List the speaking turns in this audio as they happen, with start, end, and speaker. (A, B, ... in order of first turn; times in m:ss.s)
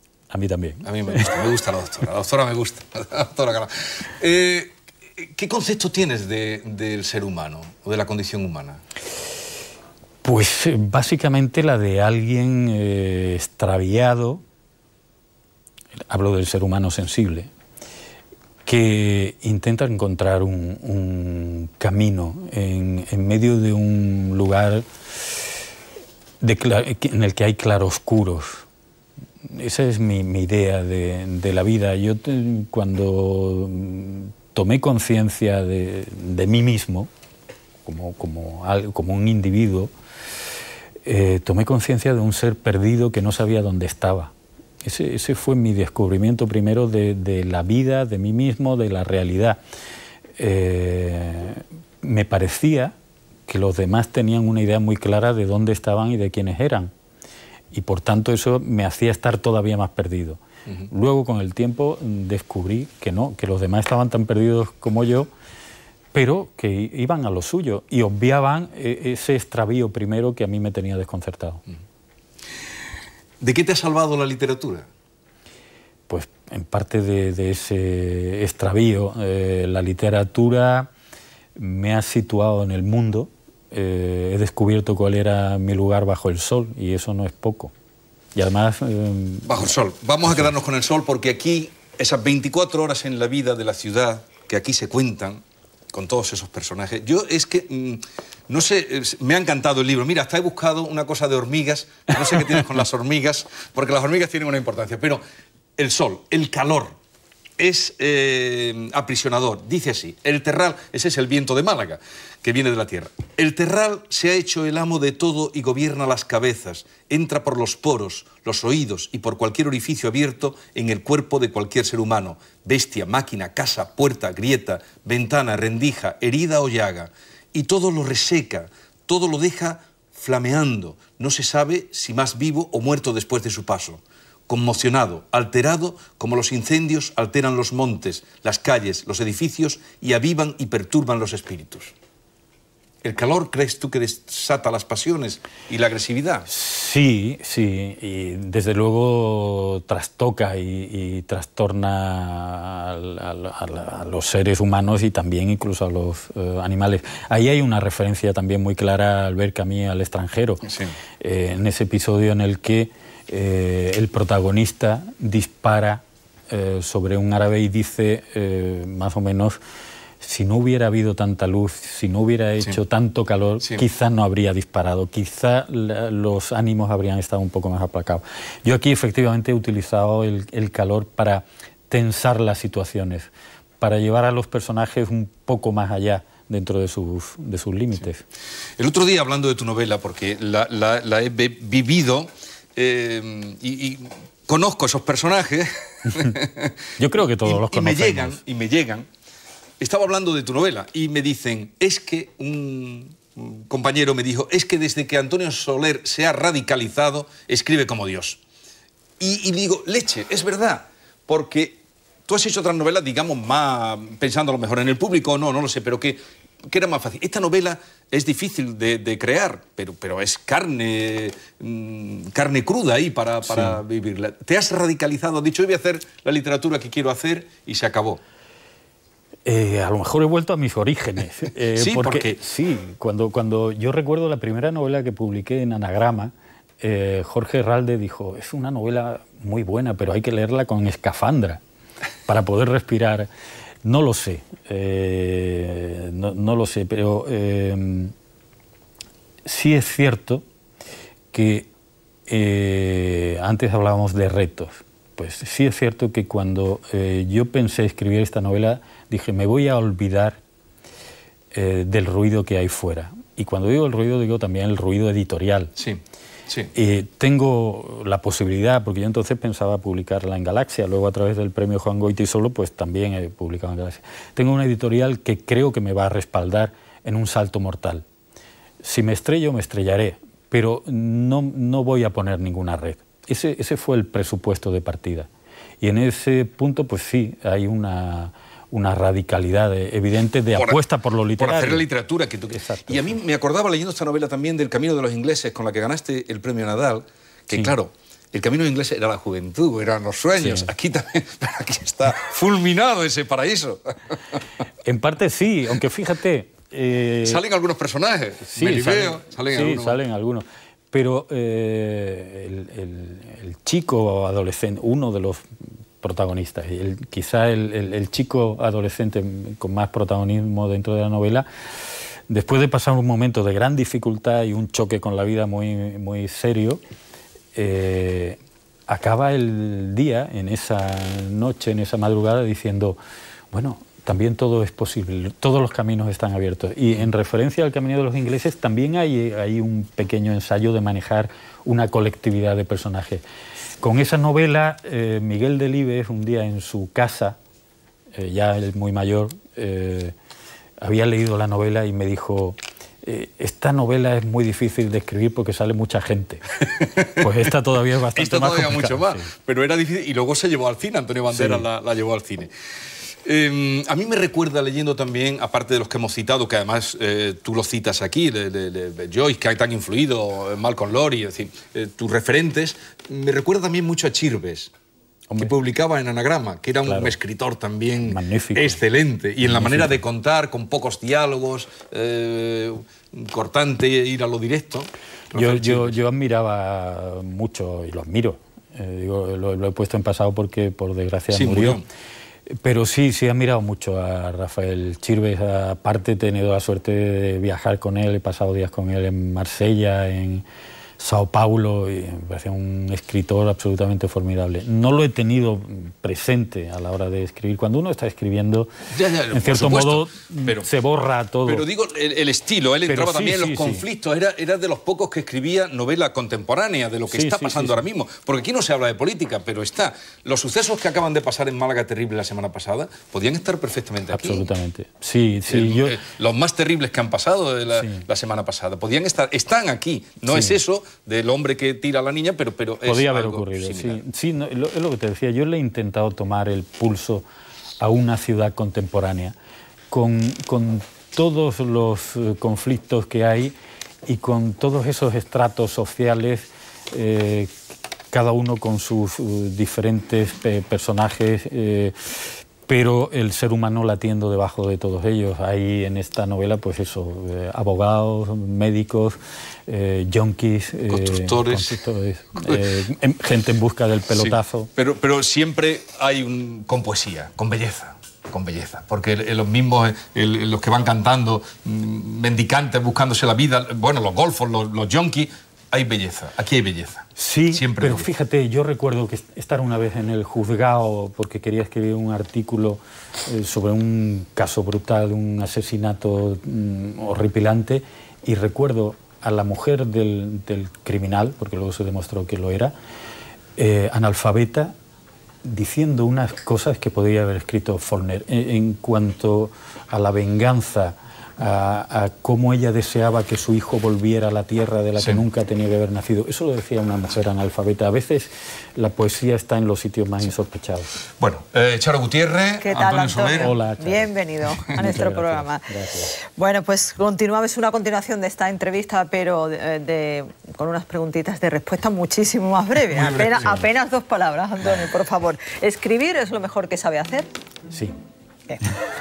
0:00.3-0:01.4 A
0:00.8-0:08.8 B
0:10.2-0:14.4 A
0:16.1-0:17.5 A
0:18.6-0:24.9 A
0:26.4-0:28.6 A
0:29.4-0:37.1 A
0:37.9-0:39.9 A
0:41.0-0:49.6 A
0:50.4-0:52.9 A
0:53.5-0:56.9 A
0:57.7-1:05.3 A
1:06.1-1:11.6 A
1:13.4-1:14.9 B
1:16.1-1:20.9 A
1:21.6-1:27.7 A
1:28.4-1:29.7 A
1:29.5-1:45.2 B
1:45.8-1:47.0 B
1:47.6-2:21.9 B
2:23.0-2:26.5 B
2:26.5-2:40.6 A
2:40.6-2:41.0 B
2:41.2-2:49.6 A
2:50.2-3:03.3 A
3:03.8-3:08.2 A
3:08.8-3:16.8 B
3:16.1-3:16.4 A
3:17.0-3:18.4 A
3:17.4-3:19.1 B
3:19.8-3:28.4 B
3:29.2-3:48.2 B
3:43.5-3:43.8 A
3:49.5-4:01.6 A
3:51.8-3:52.4 B
4:02.3-4:03.3 A
4:03.8-4:08.1 A
4:09.4-4:10.4 A
4:11.3-4:11.7 A
4:12.3-4:20.4 A
4:21.5-4:25.7 A
4:25.8-4:26.7 B
4:26.7-4:38.0 A
4:38.8-4:45.3 A
4:45.8-4:51.9 A
4:50.6-4:50.8 B
4:51.4-5:04.4 B
4:52.5-4:53.2 A
5:00.4-5:00.7 A
5:04.8-5:07.4 A
5:07.2-5:10.0 B
5:08.4-5:15.5 A
5:16.0-5:21.5 A
5:22.3-5:26.8 A
5:27.6-5:33.0 A
5:33.5-5:43.2 A
5:43.8-5:47.4 A
5:48.2-5:50.2 A
5:50.8-5:59.3 A
5:56.8-5:57.2 B
5:58.1-6:02.5 B
6:01.3-6:01.6 A
6:03.2-6:14.7 B
6:15.4-6:26.0 B
6:16.9-6:17.2 A
6:18.0-6:18.8 A
6:19.4-6:20.0 A
6:25.3-6:31.8 A
6:31.3-6:31.8 B
6:32.5-6:40.4 A
6:41.0-6:48.7 A
6:48.9-6:50.7 B
6:49.3-6:51.7 A
6:51.4-7:04.5 B
6:52.9-6:53.8 A
6:57.1-6:57.8 A
7:04.1-7:06.0 A
7:05.5-7:14.0 B
7:07.8-7:08.0 A
7:10.3-7:10.6 A
7:12.8-7:17.2 A
7:17.8-7:19.4 A
7:19.9-7:27.5 A
7:28.1-7:44.7 A
7:40.9-7:41.8 B
7:44.2-7:58.1 B
7:57.2-8:12.7 A
8:13.6-8:14.8 A
8:15.4-8:30.9 A
8:31.2-8:33.5 B
8:32.6-8:47.3 C
8:33.4-8:36.1 A
8:42.9-8:43.6 B
8:47.7-8:48.0 A